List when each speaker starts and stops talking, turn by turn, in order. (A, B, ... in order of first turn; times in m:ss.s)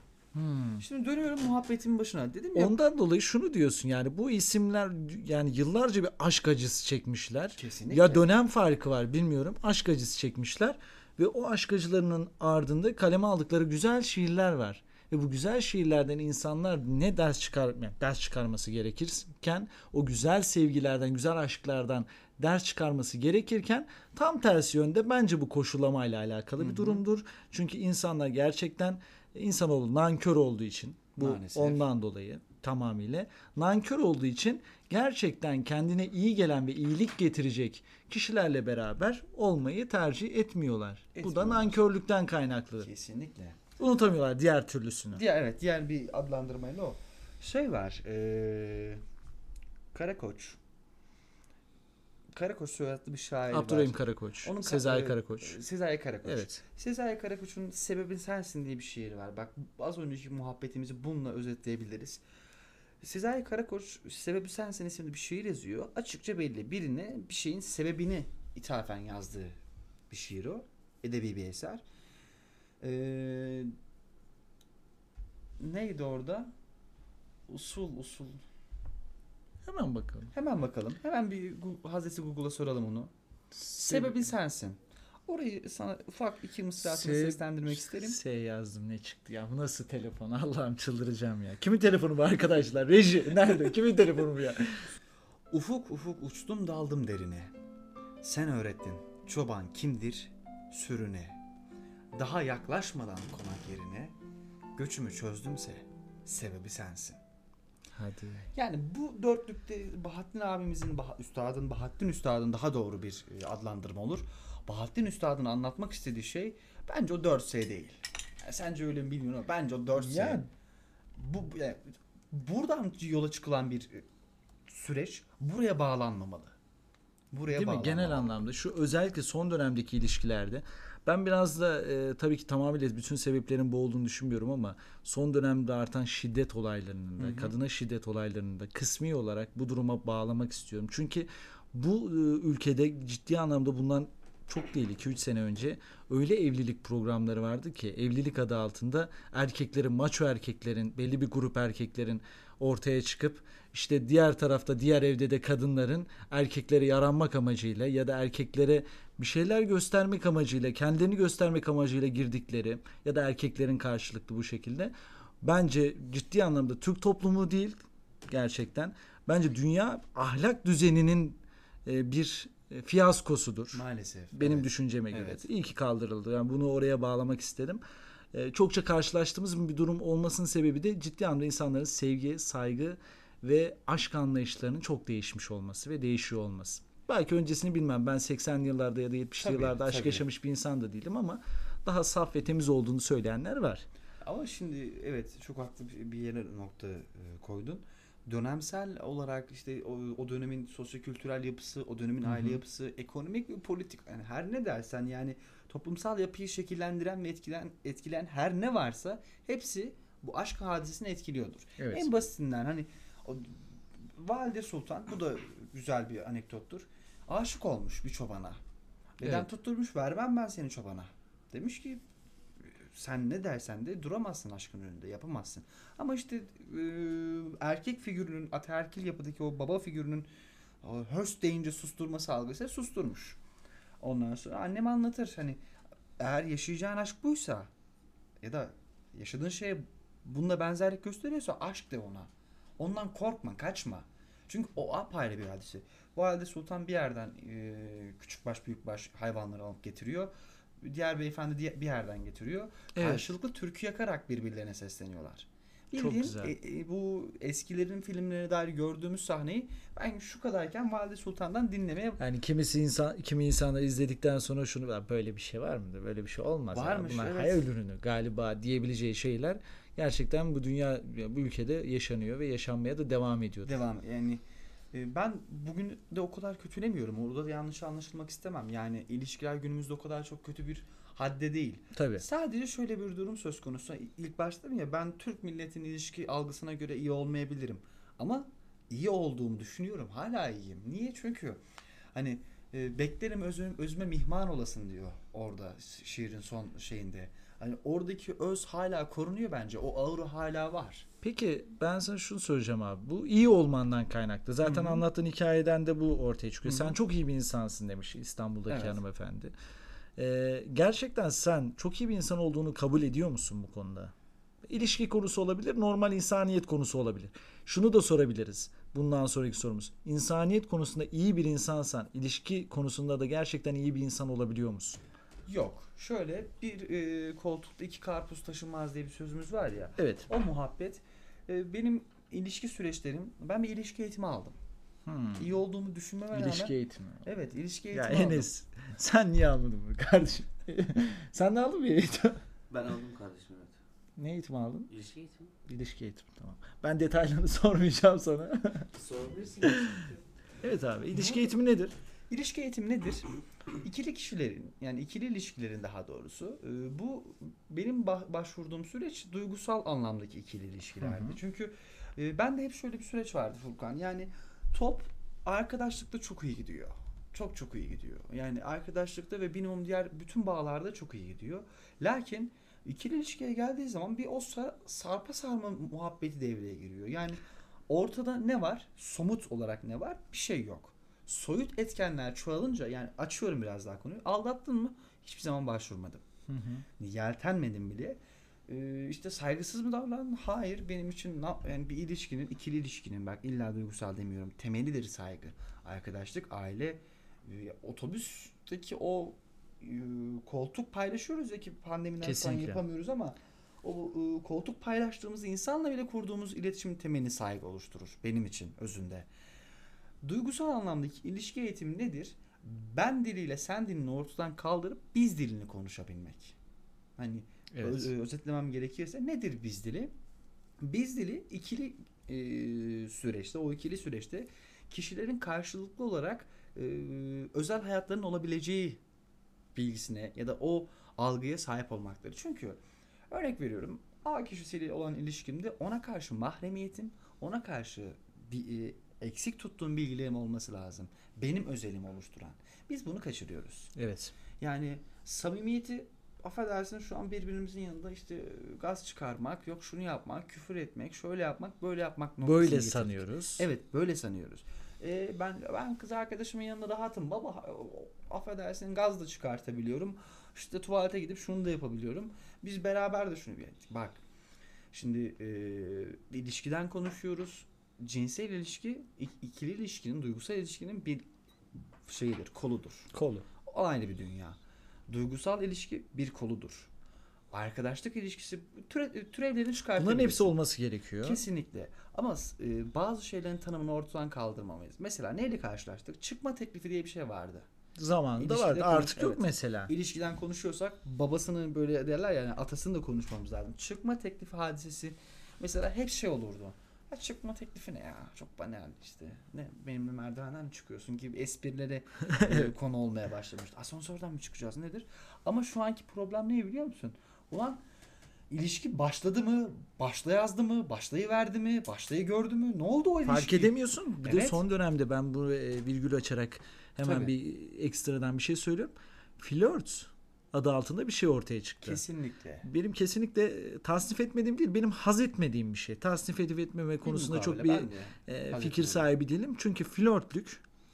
0:00.3-0:00.8 A
0:00.8-0:02.8 B
0:02.5-0:42.9 A
0:07.6-0:08.3 B
0:26.6-0:27.0 B
0:31.2-0:31.8 B
0:41.1-0:41.8 B
0:42.8-0:43.6 B
0:43.8-0:45.2 A
0:45.1-0:49.0 B
0:49.9-0:50.6 B
0:52.4-1:02.2 B
0:53.5-0:55.6 A
0:56.2-0:56.6 A
1:03.0-1:09.6 B
1:10.1-1:11.8 B
1:12.8-1:13.7 B
1:15.6-1:16.5 B
1:17.5-1:18.4 B
1:19.6-1:20.3 A
1:20.3-1:23.1 B
1:23.5-1:24.3 A
1:23.7-1:28.2 B
1:26.8-1:34.9 A
1:35.5-1:37.5 B
1:38.2-1:41.4 B
1:42.1-1:44.1 B
1:44.8-1:47.2 B
1:47.9-1:48.5 A
1:48.5-2:00.4 B
1:59.9-2:00.4 A
2:01.2-2:04.0 B
2:04.7-2:06.6 B
2:07.3-2:08.4 B
2:07.5-2:57.8 A
2:17.2-2:17.5 B
2:53.7-2:55.4 B
2:58.3-3:13.8 A
3:09.4-3:10.2 B
3:14.2-3:38.6 B
3:22.2-3:22.6 A
3:31.8-3:32.1 A
3:39.2-3:42.0 B
3:39.2-3:39.5 A
3:42.7-3:50.3 B
3:50.8-3:53.4 B
3:54.0-3:55.6 B
3:56.2-3:57.7 B
3:58.4-4:22.2 B
4:12.9-4:13.3 A
4:15.9-4:16.5 A
4:22.2-4:33.8 A
4:26.7-4:27.6 B
4:33.6-4:51.6 B
4:41.9-4:42.2 A
4:52.1-5:01.1 B
5:01.2-5:09.5 A
5:04.6-5:05.0 B
5:06.6-5:06.9 B
5:08.7-5:09.0 B
5:10.2-5:14.1 A
5:14.6-5:25.0 A
5:25.5-5:34.6 B
5:30.0-5:30.3 A
5:35.0-5:35.6 A
5:35.4-5:38.5 B
5:36.3-5:37.2 A
5:37.9-5:42.4 A
5:42.7-5:43.8 C
5:44.2-5:44.9 A
5:44.9-5:45.5 C
5:45.7-5:48.9 A
5:48.9-5:50.2 C
5:49.7-5:50.1 A
5:50.6-5:51.9 A
5:51.1-5:51.5 B
5:52.3-5:53.3 B
5:53.8-6:26.2 B
6:01.0-6:01.4 A
6:26.5-6:26.8 A
6:27.0-6:49.3 B
6:42.2-6:42.8 A
6:50.2-6:56.6 B
6:57.2-7:00.1 B
6:57.7-6:58.1 A
7:00.8-7:09.0 B
7:09.7-7:12.8 B
7:13.3-7:23.9 B
7:23.9-7:24.3 A
7:24.6-7:44.2 B
7:32.4-7:33.6 A
7:44.9-7:51.3 B
7:52.0-7:53.1 B
7:53.1-7:53.4 A
7:53.6-7:56.9 B
7:57.5-8:00.6 B
8:00.0-8:01.4 A
8:01.2-8:07.7 B
8:08.0-8:09.9 A
8:08.4-8:27.8 B
8:22.4-8:22.7 A
8:28.5-8:34.6 B
8:33.2-8:42.0 A
8:37.0-8:37.3 B
8:41.8-8:42.6 B
8:42.6-8:50.6 A
8:47.0-8:49.1 B